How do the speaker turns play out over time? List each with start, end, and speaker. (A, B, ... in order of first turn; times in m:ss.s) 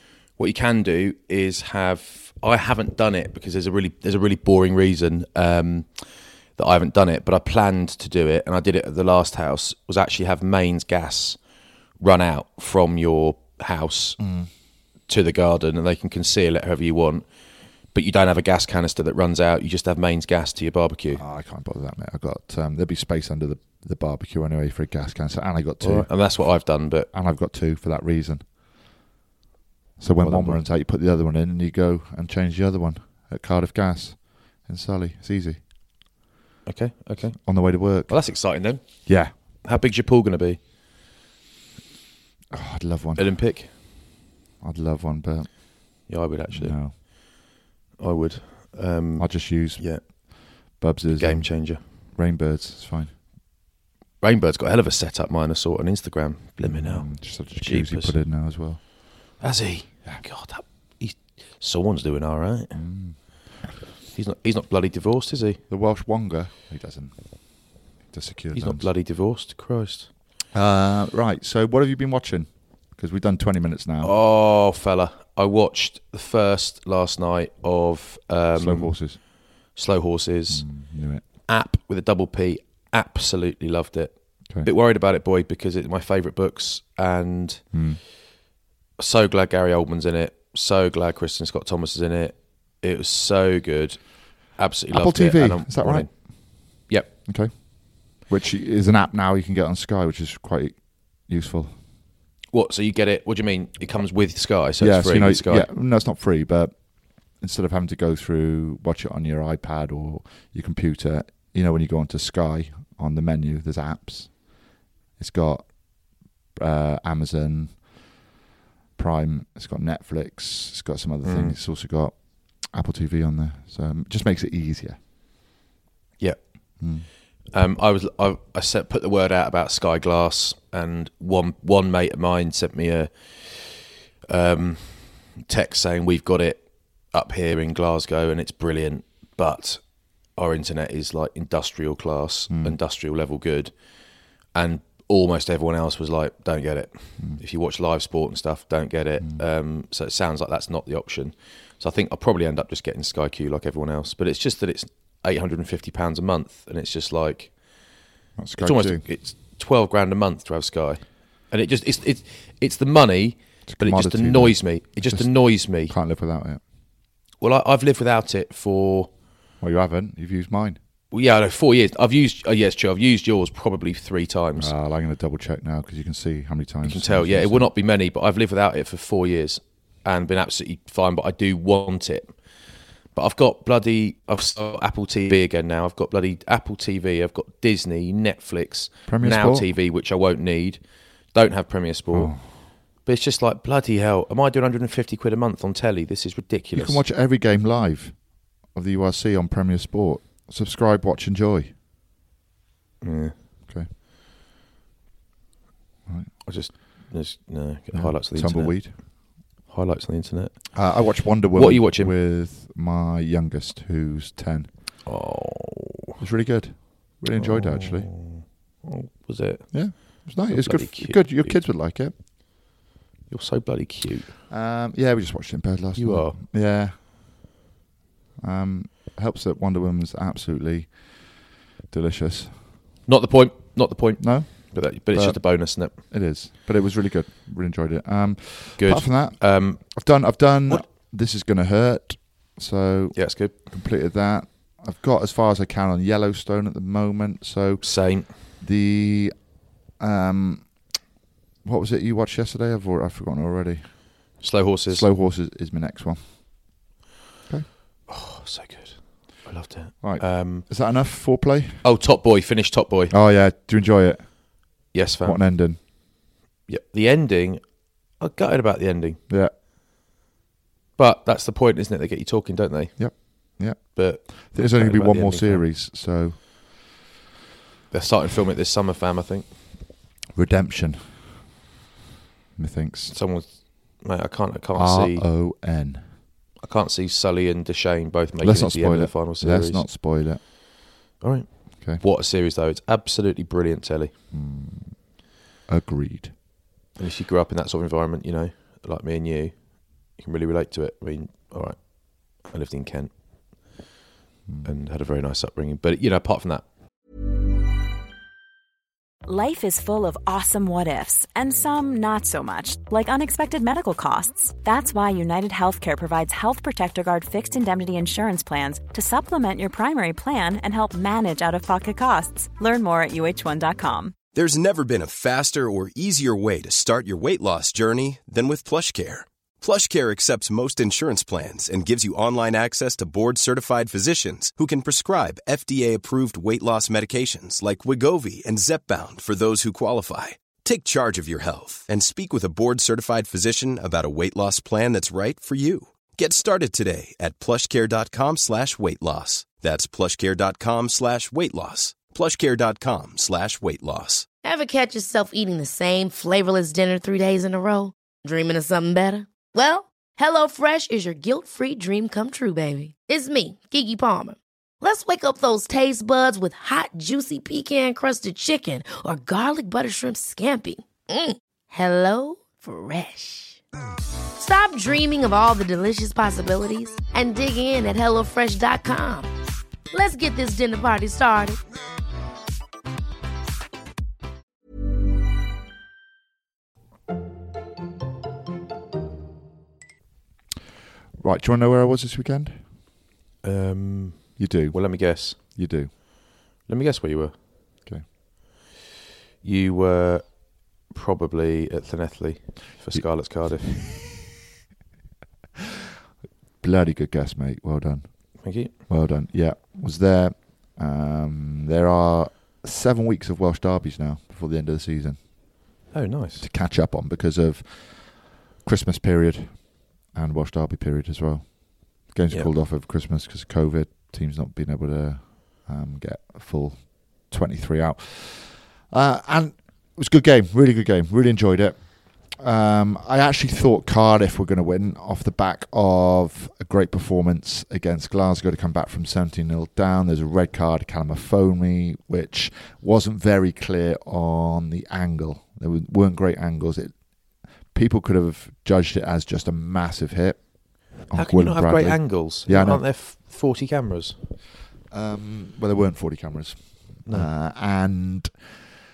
0:00.4-0:21.2 A
0:14.2-0:14.6 B
0:21.1-0:28.9 B
0:25.8-0:27.1 A
0:30.0-0:35.7 B
0:30.2-0:30.7 A
0:36.6-0:40.6 A
0:37.4-0:39.4 B
0:42.5-0:43.8 B
0:43.2-0:43.7 A
0:44.6-0:47.0 B
0:46.1-0:51.8 A
0:49.2-0:53.2 B
0:54.2-0:58.2 A
0:56.6-0:59.4 B
0:59.4-1:03.4 A
1:02.7-1:03.7 B
1:04.1-1:05.6 A
1:05.7-1:08.9 B
1:08.5-1:10.1 A
1:10.5-1:14.1 B
1:14.0-1:27.9 A
1:18.5-1:19.2 B
1:20.5-1:21.2 B
1:27.7-1:28.0 B
1:29.0-1:37.1 A
1:34.9-1:41.9 B
1:42.5-1:45.7 A
1:44.5-1:58.3 B
1:59.0-2:05.0 B
2:01.2-2:01.6 A
2:06.2-2:13.8 A
2:06.8-2:07.1 B
2:14.3-2:38.1 A
2:22.5-2:22.8 B
2:38.4-2:39.1 B
2:38.6-2:46.0 A
2:43.7-2:46.6 B
2:47.4-2:49.1 A
2:49.6-2:50.8 B
2:51.1-2:54.7 A
2:54.6-2:57.7 B
2:56.8-3:17.0 A
3:09.1-3:09.7 B
3:12.1-3:12.6 B
3:16.7-3:21.7 B
3:23.0-3:23.4 A
3:26.1-3:26.7 B
3:26.4-3:32.1 A
3:27.9-3:29.0 B
3:30.7-3:35.0 B
3:35.0-3:35.9 A
3:36.2-3:38.1 B
3:37.4-3:41.7 A
3:39.7-3:42.2 B
3:43.3-3:44.3 A
3:44.5-3:47.1 B
3:46.0-3:46.4 A
3:48.4-3:52.7 B
3:53.1-3:56.0 A
3:54.2-4:11.1 B
3:58.8-4:00.8 A
4:03.1-4:03.5 A
4:07.8-4:08.3 A
4:11.6-4:16.9 B
4:14.4-4:15.1 A
4:18.1-4:20.7 A
4:20.0-4:21.8 B
4:21.8-4:23.2 A
4:23.1-4:25.8 B
4:24.9-4:26.0 A
4:26.7-4:29.2 A
4:29.3-4:29.5 B
4:31.0-4:35.7 A
4:33.0-4:36.8 B
4:37.9-4:39.5 A
4:40.3-4:41.5 B
4:42.6-4:43.2 B
4:43.1-4:45.3 A
4:44.7-4:46.2 B
4:46.6-4:49.9 A
4:48.4-4:50.4 B
4:51.2-4:54.1 A
4:54.3-4:55.1 B
4:55.7-4:56.4 B
4:57.0-5:03.8 A
5:04.5-5:04.7 B
5:04.6-5:06.6 A
5:09.3-5:24.2 C
5:24.3-5:54.3 D
5:54.4-6:13.6 E
6:14.4-6:19.3 E
6:19.9-6:21.6 E
6:31.2-6:32.7 B
6:33.4-6:35.6 A
6:34.4-6:35.9 B
6:36.6-6:37.3 A
6:39.4-6:43.7 A
6:42.9-6:43.5 B
6:46.6-7:32.9 B
6:48.4-6:48.7 A
6:55.9-6:56.5 A
7:31.1-7:34.2 A
7:34.9-7:38.7 B